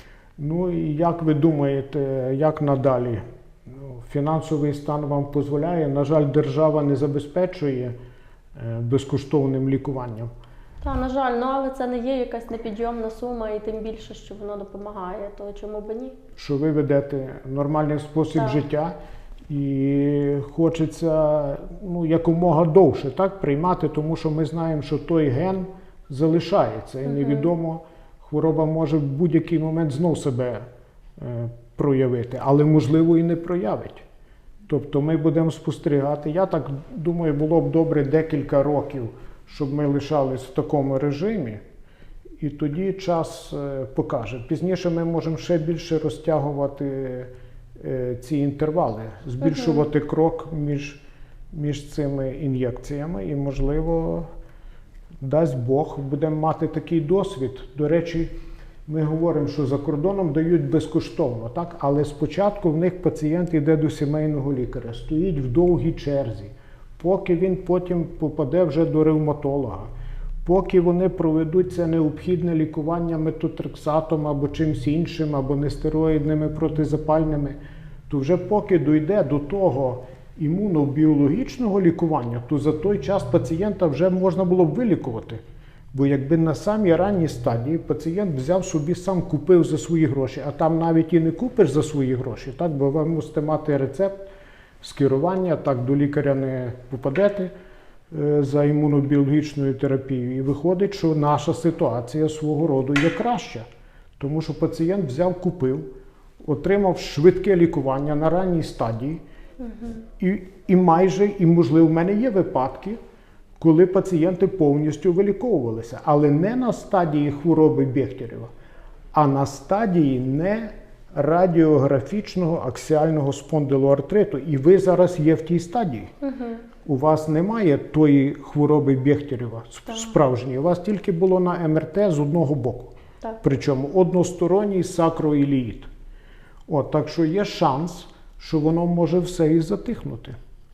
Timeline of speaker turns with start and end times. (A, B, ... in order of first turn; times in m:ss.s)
0:00.4-0:07.9 A
0:08.5-0:10.3 A
0:10.8-0:16.2 B
0:16.4-0:18.9 A
0:18.3-0:18.6 B
0:19.5-0:30.6 A
0:27.1-0:27.5 B
0:31.2-0:34.0 A
0:34.7-0:41.6 A
0:42.4-0:51.0 A
0:49.4-0:49.7 B
0:51.5-0:54.3 A
0:55.2-0:58.3 A
0:58.8-1:09.9 A
1:10.4-1:17.6 A
1:18.1-1:25.4 A
1:25.9-1:34.3 A
1:34.8-1:37.5 A
1:38.1-1:43.6 A
1:44.2-1:45.8 A
1:46.4-1:49.2 A
1:49.9-1:53.0 A
1:53.6-1:58.5 A
1:59.1-2:06.1 A
2:06.2-2:06.6 B
2:06.8-2:15.9 A
2:16.7-2:20.4 A